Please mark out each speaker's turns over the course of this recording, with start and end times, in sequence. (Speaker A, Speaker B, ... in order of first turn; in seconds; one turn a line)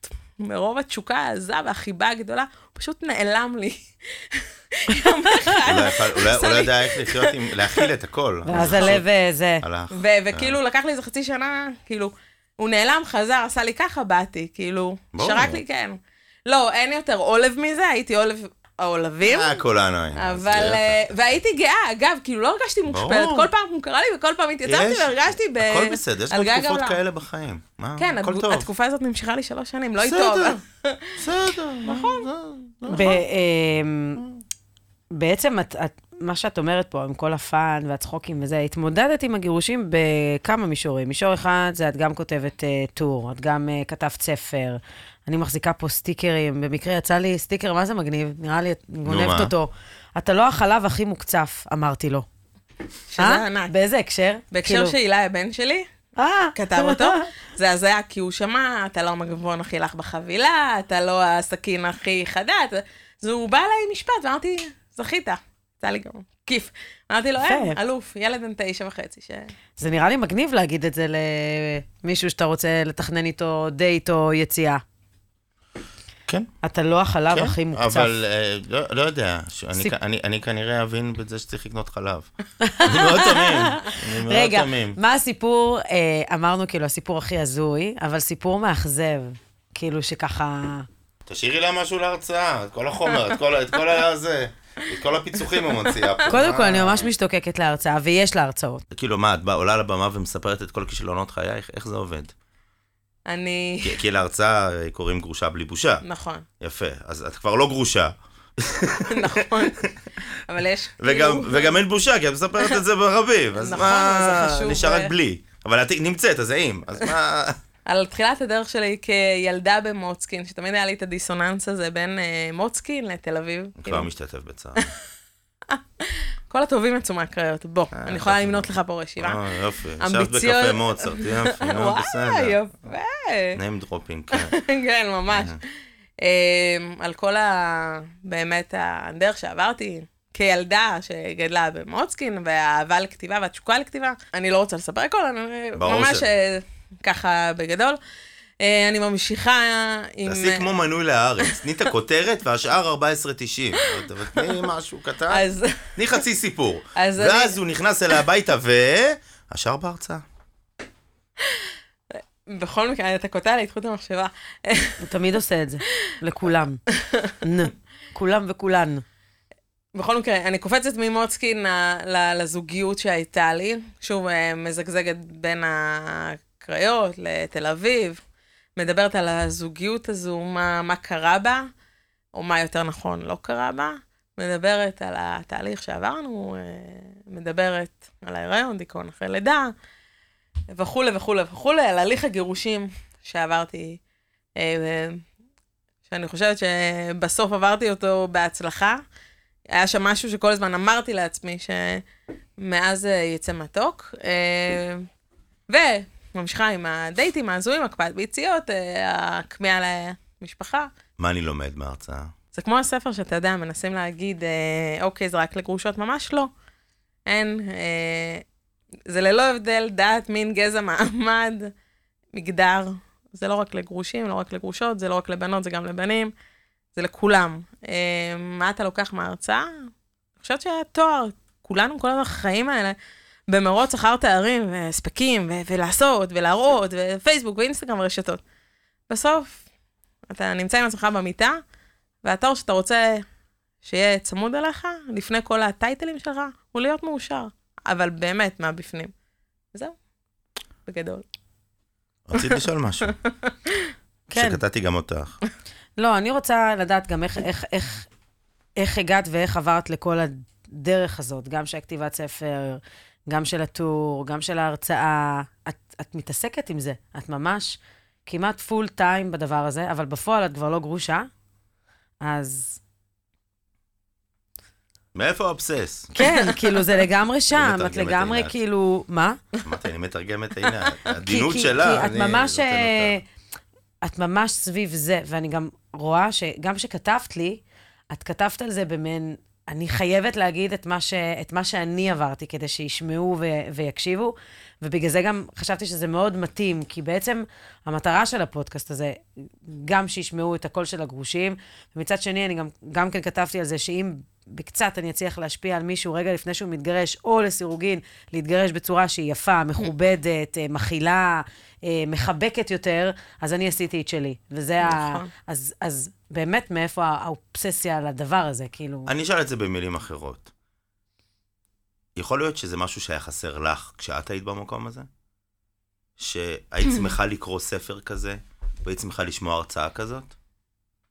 Speaker A: 0.4-7.9
Speaker B: 5.7-9.1
Speaker C: 8.5-9.6
Speaker A: 8.5-9.0
Speaker B: 9.6-10.6
Speaker A: 9.9-19.6
Speaker B: 15.1-15.6
Speaker B: 19.2-21.2
Speaker A: 20.2-27.0
Speaker B: 22.9-23.5
Speaker B: 24.6-28.7
Speaker A: 28.0-31.2
Speaker B: 30.0-30.6
Speaker B: 31.2-33.2
Speaker A: 31.8-32.3
Speaker C: 32.9-34.2
Speaker C: 35.1-52.3
Speaker B: 49.0-49.5
Speaker A: 53.1-53.7
Speaker C: 53.2-55.0
Speaker A: 54.5-55.9
Speaker C: 56.2-57.2
Speaker A: 56.5-69.5
Speaker C: 67.4-67.8
Speaker C: 69.8-74.8
Speaker C: 76.6-78.1
Speaker B: 77.3-82.3
Speaker C: 82.6-90.9
Speaker B: 82.8-85.0
Speaker B: 91.3-97.1
Speaker A: 95.6-96.2
Speaker C: 96.3-98.8
Speaker B: 98.9-102.3
Speaker A: 103.3-104.0
Speaker B: 103.8-106.0
Speaker A: 106.0-106.5
Speaker B: 106.6-109.3
Speaker A: 109.1-109.8
Speaker A: 110.5-111.8
Speaker B: 111.0-117.6
Speaker A: 113.6-115.1
Speaker A: 117.9-124.1
Speaker B: 123.8-124.9
Speaker A: 126.5-129.4
Speaker B: 127.9-132.6
Speaker A: 130.0-133.6
Speaker B: 133.6-134.6
Speaker A: 134.3-135.6
Speaker B: 135.3-135.6
Speaker A: 136.2-148.0
Speaker B: 145.8-146.3
Speaker A: 148.6-150.8
Speaker B: 150.2-155.4
Speaker A: 155.3-156.0
Speaker B: 156.0-160.2
Speaker A: 156.9-157.6
Speaker A: 162.5-165.0
Speaker C: 165.0-166.8
Speaker A: 167.0-167.3
Speaker C: 167.4-169.0
Speaker A: 169.9-178.2
Speaker A: 178.8-181.7
Speaker A: 182.3-189.7
Speaker A: 190.7-194.0
Speaker A: 194.6-195.2
Speaker A: 196.1-199.0
Speaker A: 199.7-202.0
Speaker A: 202.6-205.1
Speaker A: 205.7-210.9
Speaker B: 211.2-212.3
Speaker A: 212.5-216.5
Speaker A: 217.3-218.4
Speaker A: 219.1-221.7
Speaker A: 222.3-226.3
Speaker A: 227.0-229.7
Speaker A: 230.4-233.0
Speaker A: 233.5-238.4
Speaker A: 239.1-239.6
Speaker A: 240.3-241.6
Speaker A: 242.2-243.2
Speaker A: 243.8-249.1
Speaker A: 250.9-251.2
Speaker B: 252.3-253.2
Speaker B: 254.3-255.4
Speaker C: 254.3-254.6
Speaker C: 256.0-258.1
Speaker C: 258.8-271.3
Speaker C: 272.2-272.8
Speaker B: 275.1-276.1
Speaker C: 276.1-279.4
Speaker A: 276.2-276.7
Speaker B: 277.5-278.5
Speaker B: 279.6-283.2
Speaker C: 281.2-283.2
Speaker C: 284.0-319.1
Speaker A: 314.8-315.3
Speaker B: 319.1-320.5
Speaker B: 322.1-325.1
Speaker B: 326.2-330.3